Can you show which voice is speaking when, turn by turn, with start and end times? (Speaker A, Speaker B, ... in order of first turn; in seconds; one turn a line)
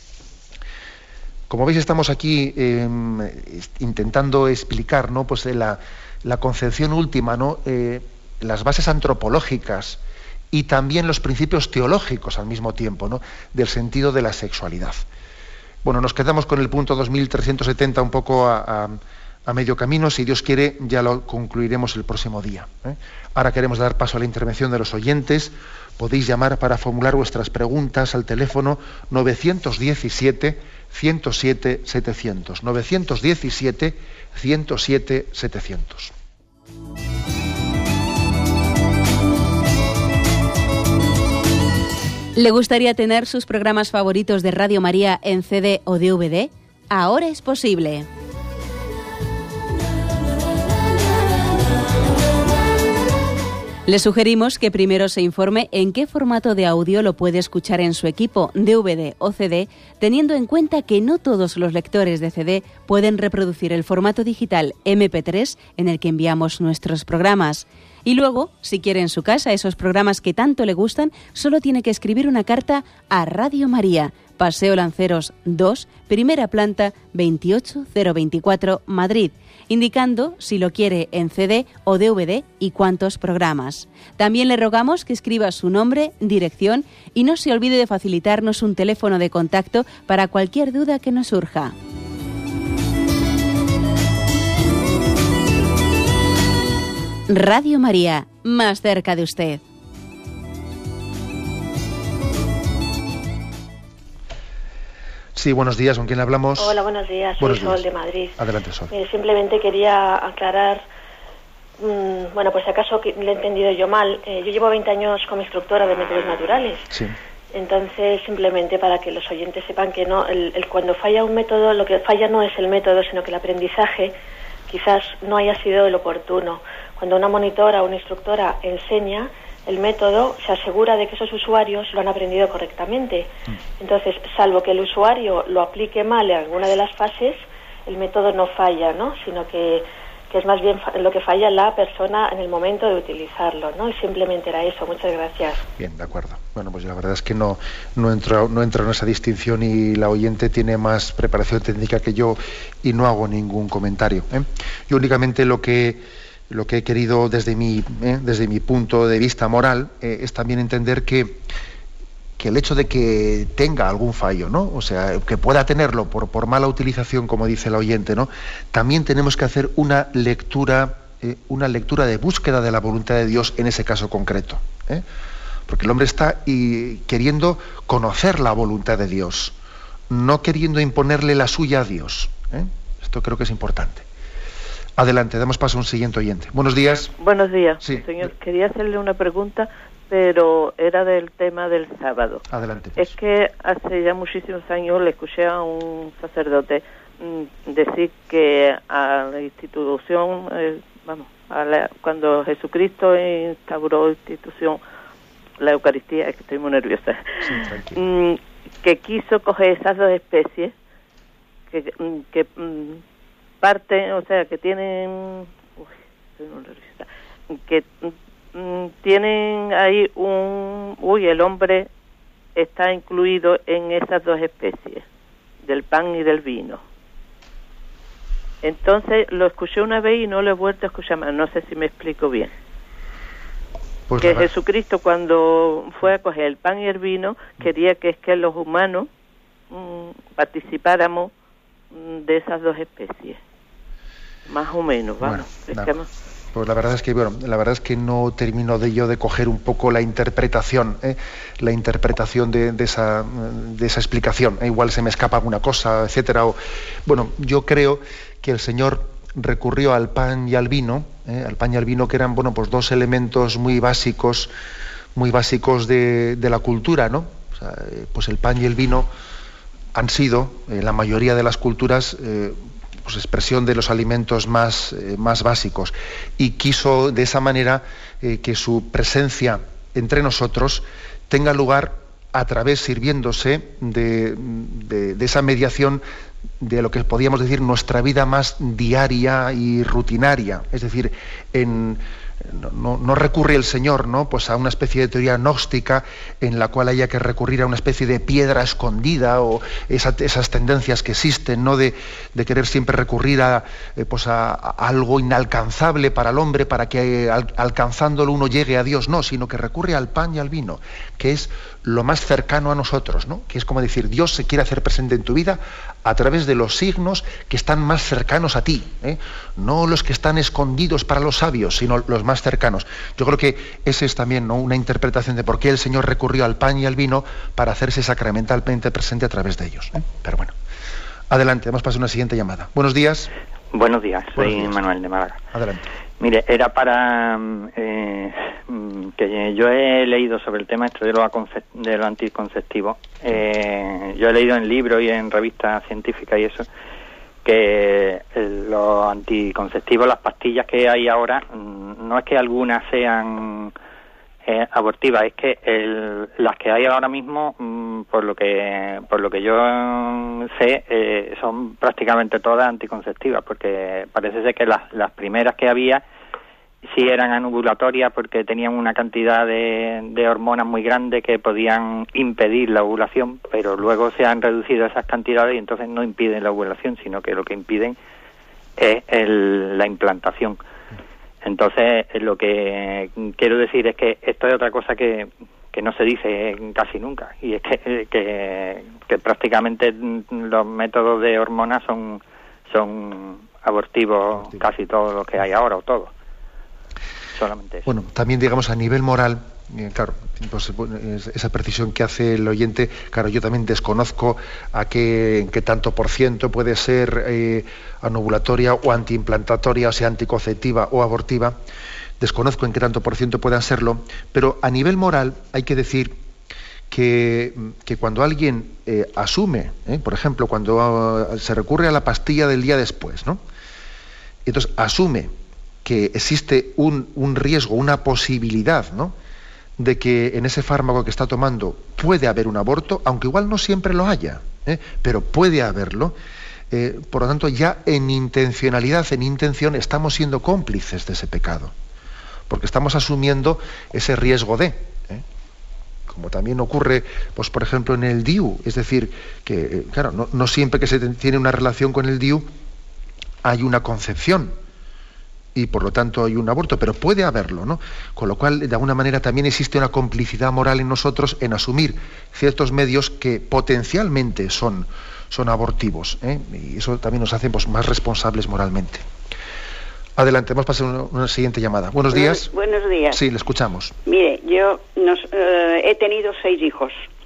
Speaker A: 1.5-10.0
Speaker A: 10.5-15.0
Speaker A: 15.8-36.1
Speaker B: 42.3-48.1
Speaker B: 53.9-91.7
Speaker B: 97.3-99.6
Speaker A: 105.3-106.8
Speaker C: 106.6-108.4
Speaker A: 107.4-107.8
Speaker A: 108.4-108.9
Speaker C: 108.9-110.8
Speaker C: 111.8-116.9
Speaker A: 116.9-117.2
Speaker C: 117.5-124.1
Speaker C: 124.7-145.7
Speaker A: 145.8-161.4
Speaker A: 162.4-175.0
Speaker A: 175.7-179.5
Speaker A: 180.1-184.1
Speaker A: 185.0-187.1
Speaker D: 187.1-192.4
Speaker A: 192.5-193.1
Speaker D: 192.9-204.8
Speaker D: 205.6-210.7
Speaker A: 207.4-208.0
Speaker D: 211.7-213.0
Speaker D: 213.6-221.9
Speaker D: 222.6-225.0
Speaker D: 225.6-226.8
Speaker D: 228.6-232.5
Speaker A: 234.1-234.5
Speaker D: 234.2-239.1
Speaker D: 239.7-241.3
Speaker D: 241.9-243.4
Speaker D: 244.5-246.1
Speaker A: 245.2-245.9
Speaker A: 246.5-264.5
Speaker A: 265.1-269.1
Speaker A: 269.9-286.0
Speaker A: 286.6-330.5
Speaker A: 331.3-333.3
Speaker E: 333.7-335.4
Speaker A: 334.3-334.8
Speaker A: 335.5-335.9
Speaker E: 336.2-346.7
Speaker E: 347.4-353.7
Speaker E: 354.4-366.0
Speaker E: 366.9-377.9
Speaker E: 378.8-380.6
Speaker E: 381.4-396.1
Speaker A: 394.3-394.7
Speaker E: 397.3-397.9
Speaker A: 397.8-411.6
Speaker A: 412.2-416.2
Speaker A: 416.9-423.4
Speaker A: 424.4-425.3
Speaker A: 425.8-429.1
Speaker A: 429.8-436.1
Speaker A: 436.7-441.7
Speaker A: 442.5-445.2
Speaker A: 446.1-452.5
Speaker A: 453.4-454.6
Speaker A: 455.5-469.0
Speaker A: 470.2-472.5
Speaker F: 472.1-473.2
Speaker A: 473.1-473.9
Speaker F: 474.1-477.0